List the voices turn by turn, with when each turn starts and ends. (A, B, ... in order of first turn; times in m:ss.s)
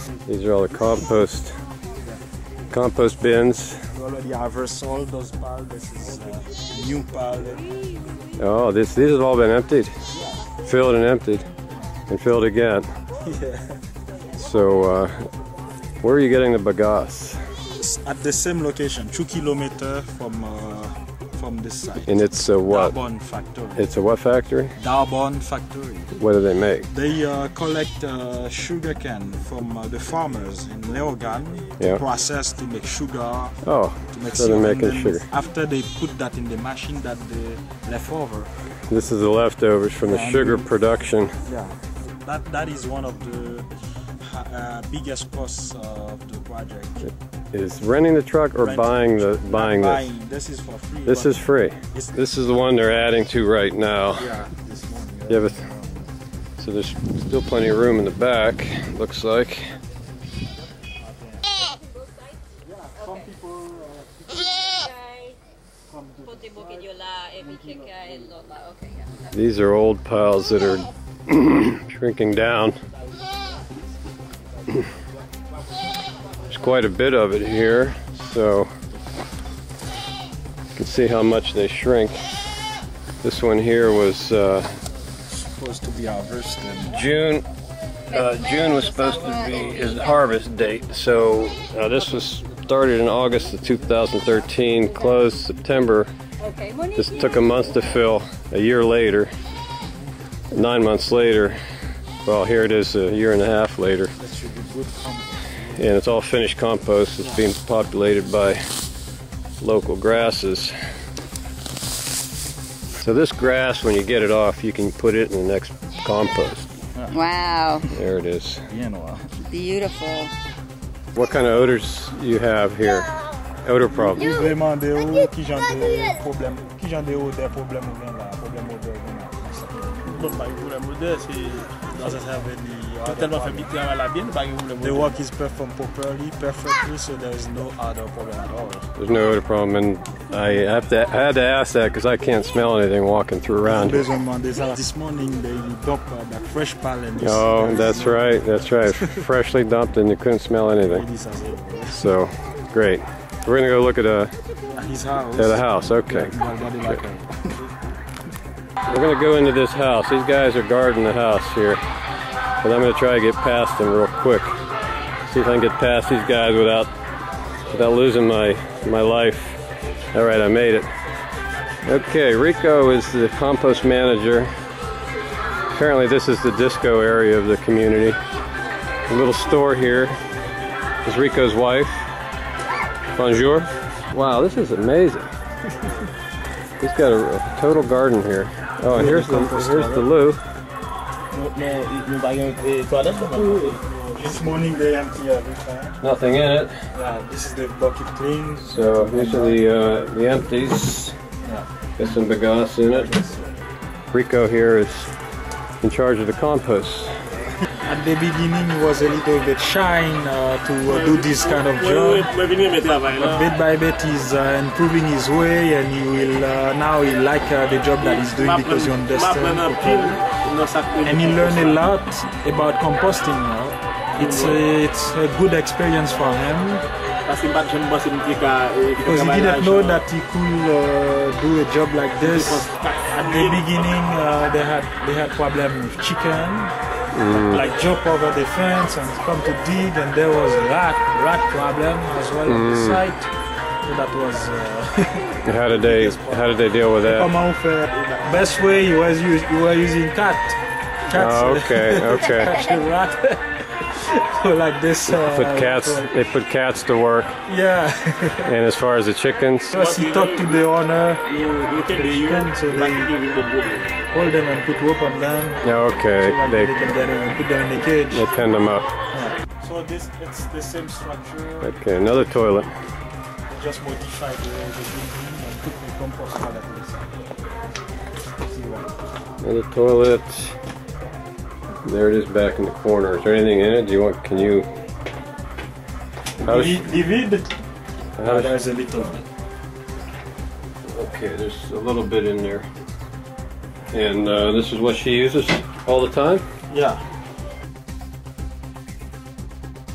0:00.3-0:01.6 A
0:02.7-0:03.8 A
0:03.9-0:07.7 B
0:08.4-0:09.9 A
0:10.1-0:10.5 B
0:10.6-0:11.5 A
0:12.1-0:12.9 A
0:13.2-0:13.8 B
0:14.3-0:15.3 A
0:16.0-0:17.4 A
0:17.7-0:23.9 B
0:22.1-0:23.0 A
0:23.8-0:24.7 A
0:24.8-0:26.1 B
0:26.2-0:26.9 A
0:26.9-0:33.6 B
0:33.6-0:35.2 A
0:34.1-0:38.5 B
0:38.9-0:41.3 A
0:40.0-0:40.7 B
0:41.4-0:43.7 B
0:44.2-0:47.1 B
0:47.5-0:50.0 A
0:48.6-0:52.4 B
0:51.1-0:54.3 A
0:54.2-0:56.1 B
0:55.3-0:55.6 A
0:56.6-0:59.7 A
1:01.0-1:01.5 B
1:02.6-1:04.6 B
1:05.0-1:05.3 C
1:05.9-1:06.9 B
1:06.2-1:09.2 C
1:07.4-1:08.1 B
1:09.3-1:12.8 A
1:16.5-1:18.7 A
1:20.8-1:22.2 A
1:23.2-1:24.7 A
1:25.3-1:27.0 B
1:26.9-1:27.4 A
1:28.1-1:36.1 A
1:28.1-1:30.0 C
1:36.4-1:37.9 C
1:37.0-1:39.3 A
1:40.5-1:41.6 A
1:42.2-1:44.1 A
1:44.2-1:45.9 B
1:45.7-1:48.6 A
1:47.2-1:47.5 B
1:49.6-1:50.7 A
1:53.0-1:56.7 A
1:57.1-1:57.9 C
1:57.9-1:58.6 A
1:58.7-1:59.3 B
1:59.4-2:00.3 C
2:01.1-2:03.1 A
2:03.6-2:04.4 A
2:03.9-2:10.1 B
2:10.0-2:12.2 D
2:12.0-2:13.7 B
2:13.0-2:15.1 D
2:14.8-2:18.9 B
2:19.0-2:24.0 A
2:23.6-2:29.2 B
2:27.2-2:31.0 A
2:30.8-2:32.1 B
2:31.9-2:34.3 A
2:34.7-2:37.6 B
2:35.4-2:36.3 A
2:38.9-2:41.8 A
2:42.6-2:44.6 A
2:45.3-2:46.9 A
2:47.7-2:49.6 A
2:50.1-2:50.9 A
2:51.8-2:54.5 A
2:55.7-2:58.2 A
2:59.1-3:00.2 A
3:01.0-3:02.1 A
3:03.2-3:05.3 A
3:06.8-3:10.4 A
3:08.9-3:10.1 B
3:11.3-3:14.1 D
3:14.1-3:16.0 B
3:16.0-3:16.7 A
3:16.9-3:19.6 B
3:18.6-3:21.2 A
3:21.4-3:21.7 B
3:22.0-3:23.1 A
3:22.9-3:23.6 B
3:24.1-3:25.1 A
3:25.8-3:27.1 A
3:27.8-3:32.3 B
3:30.9-3:33.4 D
3:33.2-3:40.2 B
3:38.0-3:41.8 D
3:41.0-3:46.8 B
3:44.1-3:44.6 D
3:47.2-3:50.0 D
3:49.0-3:56.7 B
3:52.2-3:53.7 D
3:57.1-3:57.6 A
3:57.3-4:03.3 B
4:02.4-4:03.0 A
4:03.8-4:16.1 B
4:05.4-4:07.3 A
4:11.1-4:12.7 A
4:15.1-4:17.4 A
4:17.4-4:18.5 B
4:18.4-4:19.8 A
4:19.7-4:21.2 B
4:19.8-4:20.6 D
4:21.2-4:23.9 D
4:21.9-4:23.1 B
4:24.1-4:28.3 B
4:25.6-4:26.7 A
4:28.1-4:28.9 A
4:29.1-4:31.7 B
4:31.6-4:32.7 A
4:33.5-4:37.2 B
4:38.4-4:38.9 B
4:39.4-4:40.6 A
4:41.8-4:44.7 A
4:46.4-4:47.5 B
4:46.4-4:46.8 A
4:48.2-4:48.5 A
4:48.2-4:49.2 B
4:50.9-4:52.7 A
4:53.9-4:56.4 A
4:56.7-4:57.0 B